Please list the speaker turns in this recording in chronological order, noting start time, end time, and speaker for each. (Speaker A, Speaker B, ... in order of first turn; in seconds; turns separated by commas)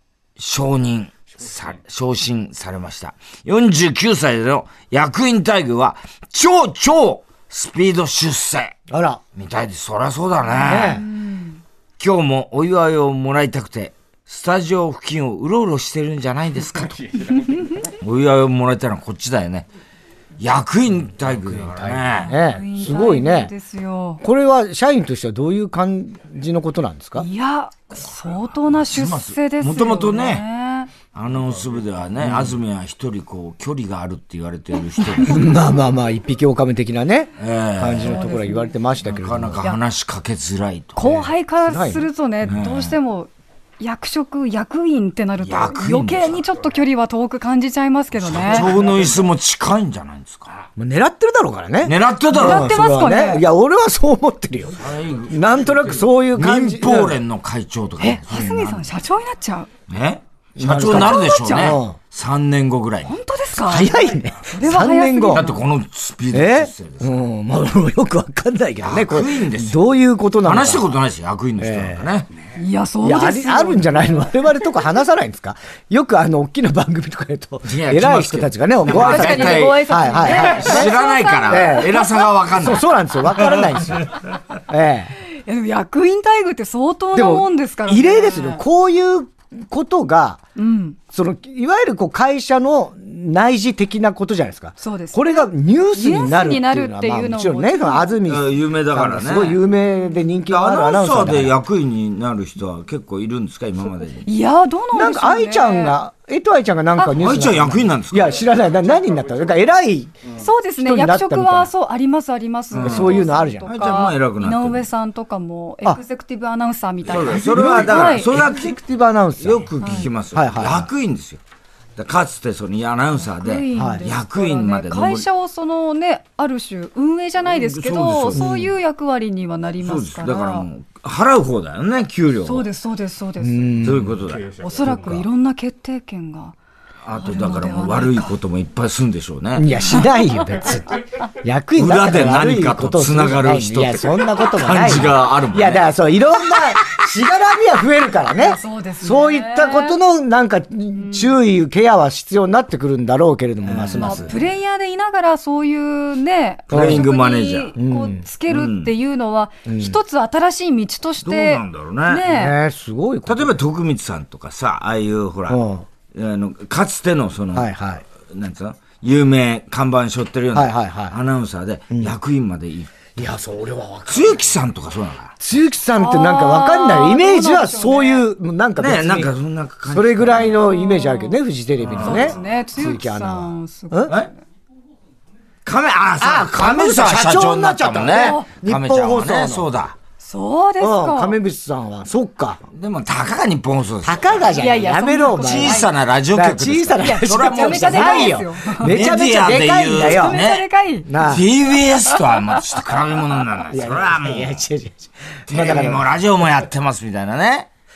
Speaker A: 0.4-8.8, Speaker B: 8.9-9.2, Speaker A: 9.3-11.0, Speaker B: 10.6-11.0, Speaker C: 11.0-11.6, Speaker A: 12.0-17.1, Speaker A: 17.9-19.7, Speaker A: 20.4-22.3, Speaker B: 22.1-23.5, Speaker C: 22.2-24.2, Speaker B: 24.2-27.3, Speaker C: 27.2-30.9, Speaker A: 28.7-30.4, Speaker A: 31.1-35.4, Speaker B: 32.2-32.6, Speaker B: 35.2-39.6, Speaker A: 37.4-38.1, Speaker C: 38.0-38.7, Speaker A: 39.0-41.2, Speaker C: 41.0-48.7, Speaker B: 41.6-42.1, Speaker A: 42.4-42.9, Speaker A: 45.4-46.4, Speaker A: 48.2-50.5, Speaker B: 50.8-57.2, Speaker A: 51.8-52.7, Speaker C: 52.3-53.4, Speaker A: 54.8-58.9, Speaker C: 58.0-59.7, Speaker A: 59.9-63.1, Speaker B: 60.5-62.0, Speaker C: 60.8-61.8, Speaker C: 63.0-64.0, Speaker B: 63.5-65.5, Speaker C: 64.5-65.6, Speaker A: 65.3-67.1, Speaker B: 66.3-70.9, Speaker A: 68.8-69.8, Speaker A: 70.4-72.3, Speaker B: 71.6-72.0, Speaker C: 72.5-74.0, Speaker B: 73.0-80.9, Speaker A: 77.6-82.8, Speaker C: 78.9-82.3, Speaker B: 81.5-82.0, Speaker B: 82.5-85.1, Speaker A: 83.4-83.7, Speaker C: 85.3-88.6, Speaker B: 87.1-90.4, Speaker C: 90.5-91.0, Speaker B: 91.1-101.5, Speaker C: 94.8-98.2, Speaker A: 98.3-99.6, Speaker A: 100.5-104.3, Speaker C: 104.2-106.0, Speaker B: 104.9-110.2, Speaker A: 107.2-108.4, Speaker C: 110.4-118.3, Speaker B: 110.8-111.7, Speaker A: 112.7-114.8, Speaker B: 112.8-113.7, Speaker A: 117.0-118.8, Speaker B: 117.2-120.9, Speaker A: 119.4-121.4, Speaker C: 119.8-120.1, Speaker A: 122.0-125.3, Speaker C: 123.3-130.7, Speaker B: 123.7-124.0, Speaker A: 127.5-128.7, Speaker A: 129.8-132.7, Speaker C: 132.4-133.7, Speaker B: 133.4-134.2, Speaker A: 133.8-134.9, Speaker C: 134.6-136.5, Speaker B: 134.8-135.2, Speaker A: 137.0-139.7, Speaker C: 137.2-138.3, Speaker B: 139.6-154.3, Speaker A: 141.8-145.8, Speaker C: 148.4-150.0, Speaker C: 150.9-151.3, Speaker A: 153.6-154.3, Speaker C: 154.0-162.6, Speaker A: 156.7-157.7, Speaker B: 156.7-157.1, Speaker B: 157.8-158.2, Speaker A: 158.5-158.9, Speaker B: 159.7-160.0, Speaker A: 161.2-162.2, Speaker B: 162.2-163.6, Speaker A: 163.2-167.7, Speaker B: 165.5-165.8, Speaker B: 167.5-168.0, Speaker A: 168.2-173.2, Speaker B: 170.5-171.2, Speaker B: 173.2-174.4, Speaker A: 174.1-175.3, Speaker B: 175.4-179.3, Speaker C: 176.0-178.2, Speaker A: 178.8-180.6, Speaker B: 179.9-184.1, Speaker C: 180.6-181.4, Speaker A: 181.8-182.3, Speaker C: 182.0-184.4, Speaker A: 185.6-189.9, Speaker B: 186.2-189.7, Speaker C: 188.1-188.5, Speaker C: 190.2-191.4, Speaker B: 190.8-192.6, Speaker A: 192.7-194.4, Speaker B: 194.0-200.4, Speaker C: 194.5-195.9, Speaker A: 195.3-204.6, Speaker C: 197.0-198.9, Speaker C: 199.9-201.1, Speaker B: 201.1-201.5, Speaker C: 202.0-202.6, Speaker B: 203.7-206.1, Speaker A: 205.5-207.7